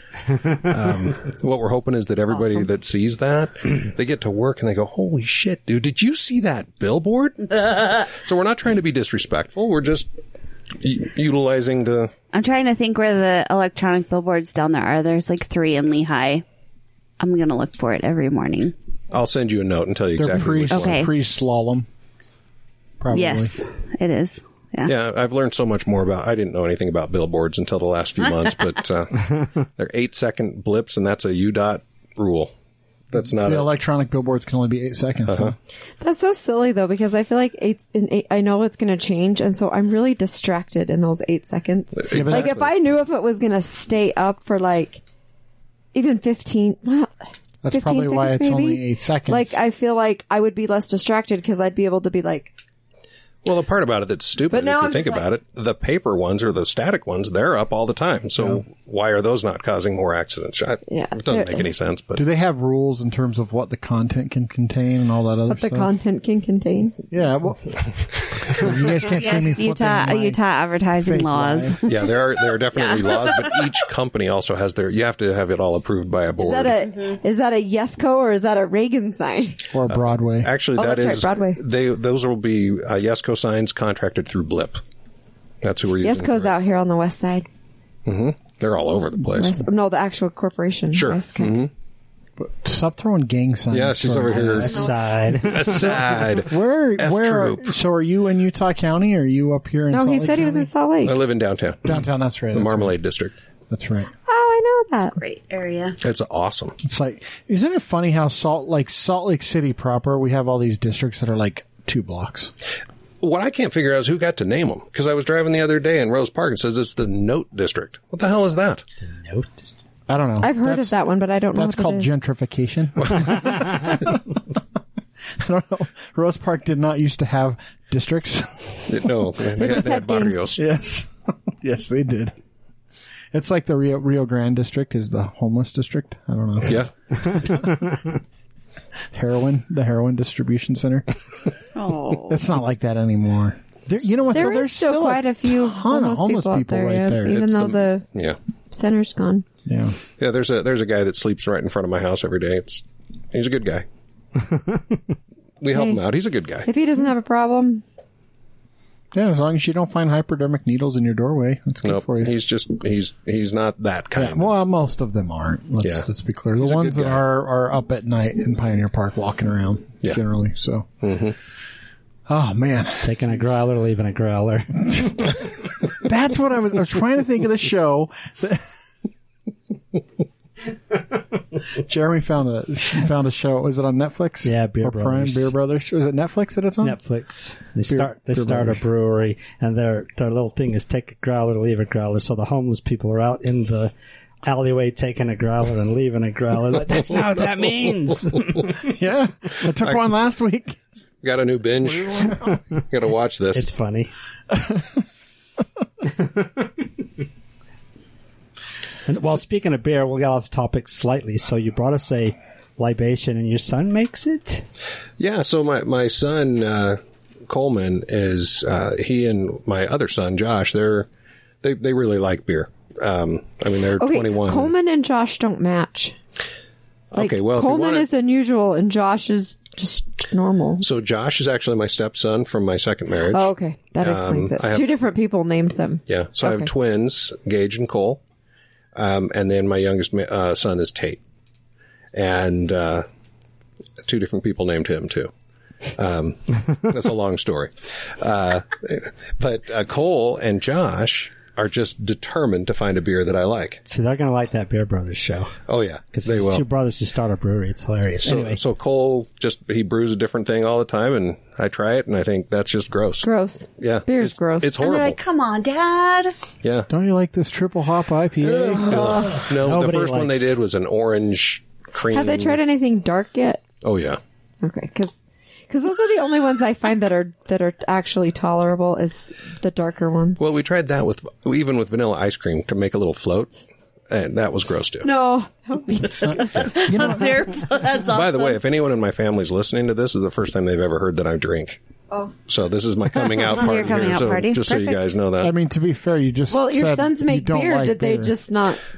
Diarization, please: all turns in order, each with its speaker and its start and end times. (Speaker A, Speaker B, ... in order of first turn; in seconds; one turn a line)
Speaker A: 0.5-10.1
Speaker A: 10.8-12.1
Speaker B: 12.3-16.4
Speaker B: 17.2-18.7
Speaker A: 19.1-21.1
Speaker C: 20.2-21.9
Speaker B: 20.7-21.1
Speaker C: 23.0-23.5
Speaker B: 23.1-24.9
Speaker A: 24.8-32.5
Speaker A: 33.1-33.7
Speaker C: 33.4-35.5
Speaker A: 35.3-35.5
Speaker D: 36.0-45.0
Speaker A: 42.0-42.7
Speaker C: 42.1-42.5
Speaker D: 45.9-47.1
Speaker C: 47.6-49.6
Speaker D: 47.7-52.5
Speaker A: 53.4-62.2
Speaker D: 54.5-55.2
Speaker D: 60.9-61.7
Speaker C: 62.1-65.9
Speaker D: 65.5-67.0
Speaker C: 67.1-70.4
Speaker B: 68.9-72.1
Speaker C: 71.0-71.8
Speaker A: 71.8-76.8
Speaker B: 72.7-73.7
Speaker D: 76.4-79.6
Speaker B: 76.8-77.2
Speaker C: 79.7-80.5
Speaker A: 79.9-84.8
Speaker D: 80.7-81.6
Speaker A: 85.6-86.5
Speaker D: 86.0-87.5
Speaker A: 88.0-89.6
Speaker D: 89.3-91.7
Speaker A: 90.9-91.7
Speaker C: 92.4-94.8
Speaker A: 93.7-94.9
Speaker E: 94.3-95.7
Speaker A: 95.4-97.7
Speaker C: 95.7-100.7
Speaker D: 99.9-101.2
Speaker A: 101.0-102.0
Speaker C: 101.8-102.9
Speaker A: 102.5-103.3
Speaker C: 103.7-104.1
Speaker D: 104.3-105.2
Speaker B: 105.1-106.0
Speaker A: 106.0-106.8
Speaker C: 106.8-112.5
Speaker A: 113.2-118.8
Speaker E: 119.0-119.7
Speaker C: 120.1-121.0
Speaker D: 120.4-122.1
Speaker C: 121.5-124.4
Speaker C: 125.3-129.7
Speaker A: 128.9-130.6
Speaker D: 129.6-130.6
Speaker C: 130.6-132.3
Speaker C: 133.3-138.0
Speaker A: 136.7-136.9
Speaker C: 139.1-141.1
Speaker B: 141.8-142.4
Speaker C: 142.3-147.4
Speaker D: 144.3-148.1
Speaker A: 147.3-148.4
Speaker D: 148.7-149.4
Speaker C: 149.7-150.0
Speaker A: 150.2-153.8
Speaker A: 155.6-156.7
Speaker D: 155.7-156.0
Speaker D: 156.6-157.8
Speaker C: 159.1-162.3
Speaker A: 161.8-164.5
Speaker C: 164.1-171.0
Speaker A: 165.8-166.1
Speaker A: 166.6-167.2
Speaker A: 171.0-171.3
Speaker C: 172.3-173.2
Speaker E: 173.0-175.1
Speaker C: 174.9-175.2
Speaker C: 176.0-178.6
Speaker C: 181.7-187.0
Speaker E: 184.4-185.5
Speaker E: 186.8-193.9
Speaker C: 187.9-188.8
Speaker E: 194.4-198.9
Speaker C: 198.8-200.8
Speaker A: 201.2-203.7
Speaker C: 201.8-202.6
Speaker E: 203.5-204.1
Speaker C: 204.5-205.0
Speaker E: 209.1-214.6
Speaker A: 215.2-221.1
Speaker A: 221.6-224.7
Speaker D: 224.0-226.2
Speaker A: 227.1-228.1
Speaker D: 227.1-230.8
Speaker A: 230.8-234.9
Speaker D: 233.3-236.7
Speaker A: 236.1-238.2
Speaker A: 238.9-241.2
Speaker A: 242.1-243.1
Speaker A: 244.0-245.3
Speaker A: 245.9-253.8
Speaker E: 253.8-255.6
Speaker A: 255.7-256.6
Speaker E: 256.1-258.6
Speaker A: 258.2-265.2
Speaker D: 263.2-264.8
Speaker B: 264.8-266.3
Speaker A: 266.6-266.9
Speaker C: 266.9-269.4
Speaker A: 268.4-272.6
Speaker E: 269.5-270.5
Speaker D: 272.1-273.6
Speaker A: 273.8-274.2
Speaker D: 274.6-280.4
Speaker A: 280.4-283.5
Speaker A: 284.1-285.1
Speaker D: 285.0-286.9
Speaker C: 286.3-287.5
Speaker B: 286.3-288.6
Speaker A: 286.5-286.8
Speaker A: 288.0-291.8
Speaker A: 292.5-295.5
Speaker B: 293.4-295.0
Speaker C: 295.4-298.4
Speaker D: 296.5-298.8